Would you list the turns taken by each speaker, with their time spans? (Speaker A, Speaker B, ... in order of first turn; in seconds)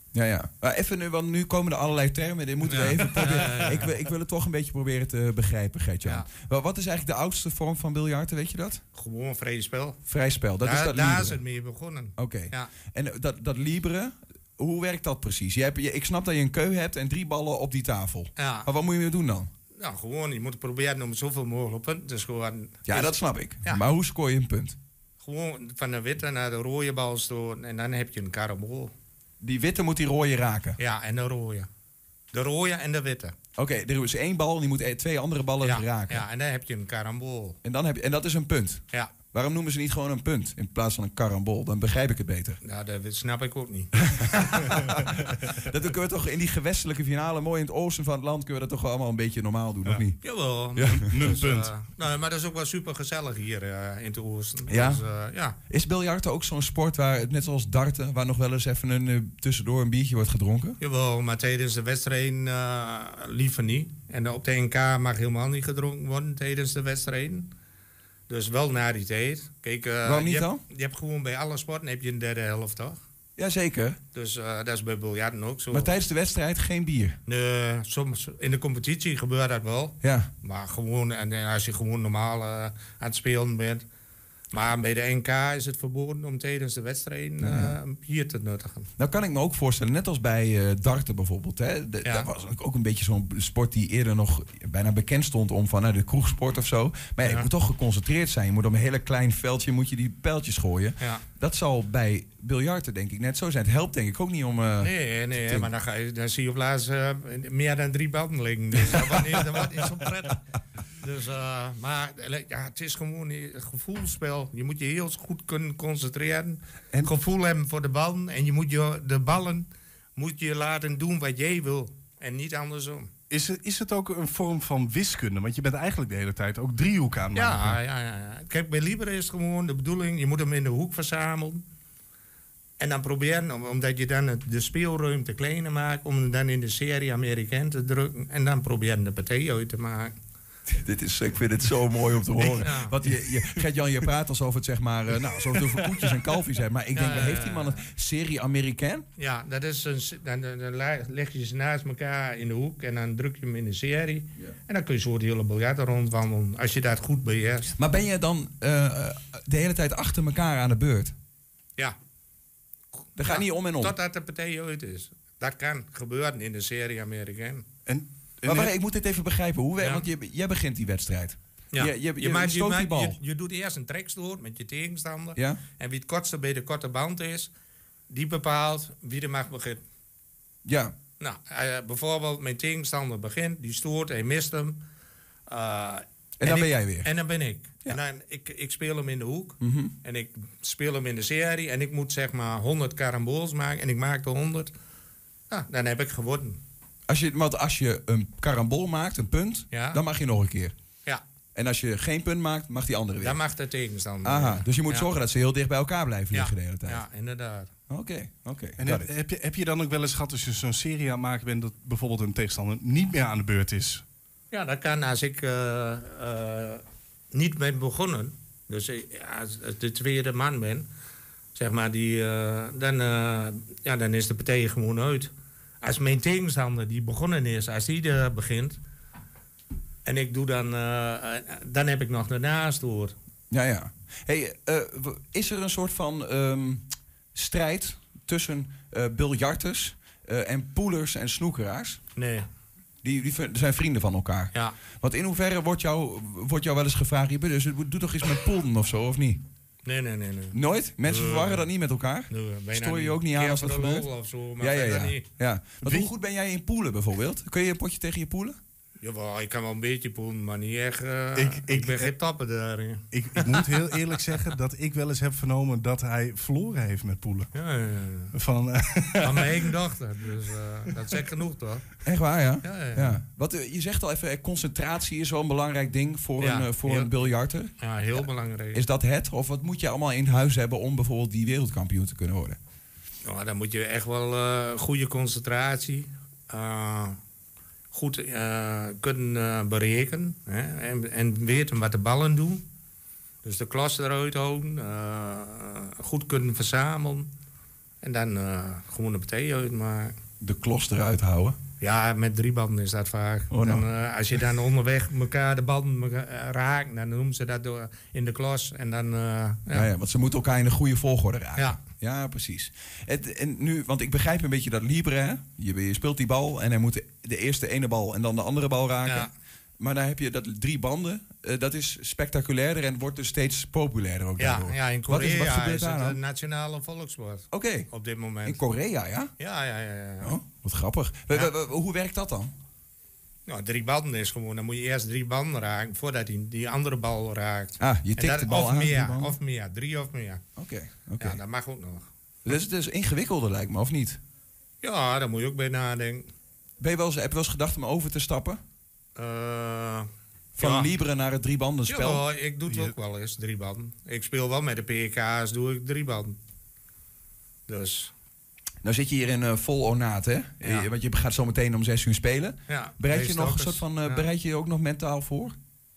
Speaker A: 0.1-8.8, 10.1-11.4, 12.2-19.5, 22.9-24.8, 29.4-30.8, 33.6-36.2, 37.6-42.6, 44.5-50.2, 50.8-51.1, 54.7-55.0, 55.7-60.8, 70.0-70.6, 73.4-74.0, 75.7-77.2, 80.0-80.3, 87.4-87.8, 89.0-105.7, 140.7-149.1, 157.8-161.1, 163.2-163.9, 168.4-173.2, 175.4-175.6, 180.7-180.9, 186.4-187.1, 189.6-189.9, 197.1-200.7, 201.6-203.4, 204.2-207.0, 207.9-209.1, 233.5-242.0, 243.0-249.4, 250.5-254.1, 254.6-258.6, 272.0-277.7, 278.7-282.6, 300.4-301.6, 303.5-303.8, 309.7-326.2, 327.5-327.9, 328.4-329.3, 330.2-332.5, 337.8-339.4, 340.6-341.4, 342.4-344.2, 346.8-348.6, 350.6-352.2, 358.8-365.6
Speaker B: 2.7-3.9, 8.9-10.0, 10.6-12.7, 18.4-18.7, 19.8-23.8, 25.2-28.9, 30.8-31.7, 32.3-33.3, 35.6-37.6, 42.6-44.9, 50.2-55.6, 60.8-67.5, 68.3-73.0, 74.1-75.9, 77.2-83.8, 84.5-88.9, 92.0-92.3, 104.8-110.4, 111.0-123.1, 127.3-131.6, 132.8-140.1, 142.4-143.0, 146.9-147.8, 149.2-157.8, 163.2-167.7, 169.8-170.1, 171.7-177.5, 178.1-179.8, 181.2-184.8, 185.5-194.7, 195.5-196.6, 199.7-200.0, 203.2-205.1, 206.3-207.7, 214.5-220.9, 221.6-225.3, 225.8-228.8, 230.1-233.1, 242.2-242.4, 249.8-251.6, 252.3-255.2, 259.0-263.7, 267.5-268.3, 269.2-271.9, 272.6-273.2, 276.4-277.1, 277.8-278.8, 283.2-287.2, 287.9-292.6, 293.4-297.3, 298.0-300.1, 301.8-309.9, 311.6-311.8, 324.4-328.6, 329.4-330.4, 333.5-340.4, 341.2-342.0, 344.8-346.3, 349.2-350.1, 350.6-350.9, 351.9-356.3, 357.7-358.1, 360.6-360.9, 362.7-364.3
Speaker C: 50.9-51.7, 123.3-127.8, 167.9-168.7, 208.8-214.0, 255.8-256.1, 261.4-262.1, 263.1-267.5, 268.3-269.7, 352.7-352.9